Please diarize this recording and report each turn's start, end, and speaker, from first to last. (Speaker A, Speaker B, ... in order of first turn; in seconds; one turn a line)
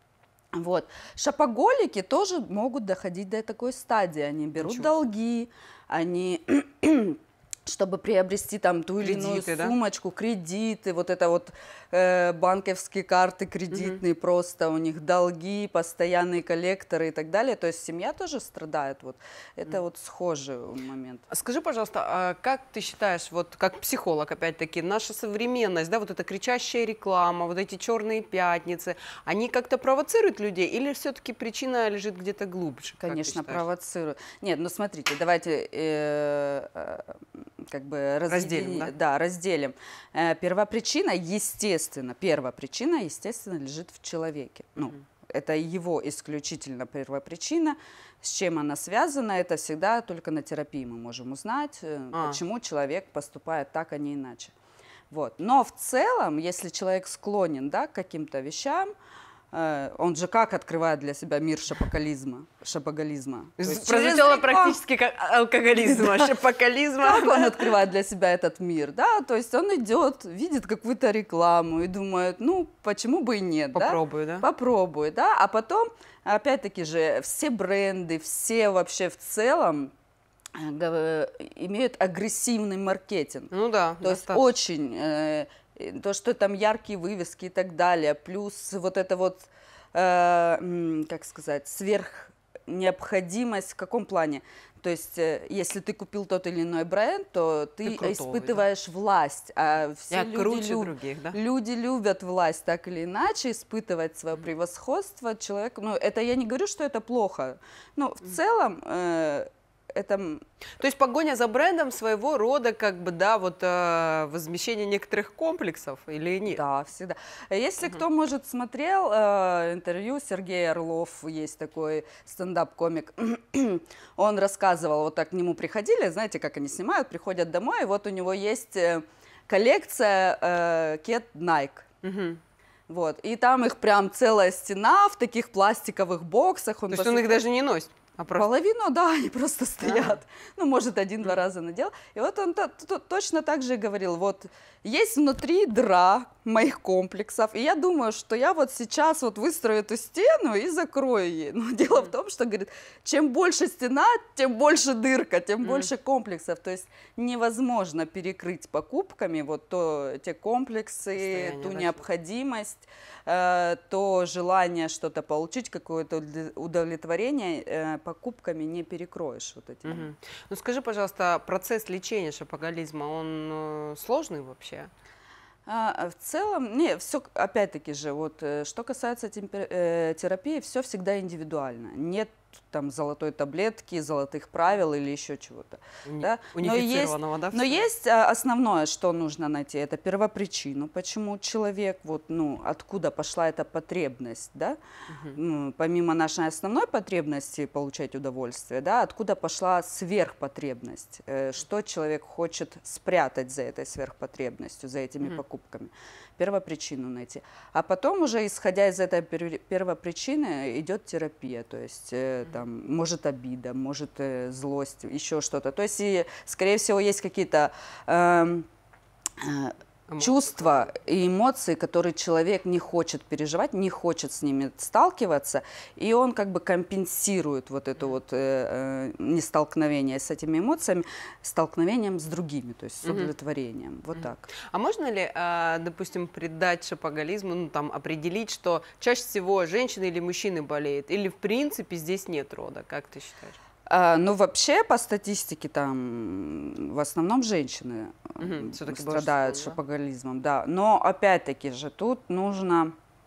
Speaker A: 0.6-21.3
Speaker B: 4.6-4.9
Speaker B: 9.0-9.8
Speaker B: 13.7-14.0
Speaker B: 21.3-33.6
Speaker A: 33.0-54.5
Speaker B: 38.3-38.9
Speaker B: 52.1-52.4
Speaker A: 55.1-58.9
Speaker A: 59.5-64.8
Speaker B: 63.6-67.7
Speaker A: 65.8-66.3
Speaker A: 67.0-79.9
Speaker B: 73.8-74.5
Speaker A: 80.5-110.4
Speaker B: 83.5-84.5
Speaker B: 97.8-98.6
Speaker B: 100.1-101.4
Speaker B: 110.8-116.6
Speaker A: 116.5-131.9
Speaker B: 132.0-132.4
Speaker A: 132.9-137.4
Speaker B: 136.9-138.5
Speaker A: 138.3-170.1
Speaker B: 139.8-140.2
Speaker B: 155.6-155.9
Speaker B: 161.2-162.0
Speaker B: 169.8-174.9
Speaker A: 175.7-194.8
Speaker B: 186.1-187.9
Speaker A: 195.3-218.7
Speaker A: 219.4-234.5
Speaker B: 220.1-220.7
Speaker B: 233.0-233.3
Speaker B: 234.7-243.6
Speaker A: 243.9-252.9
Speaker B: 248.4-249.8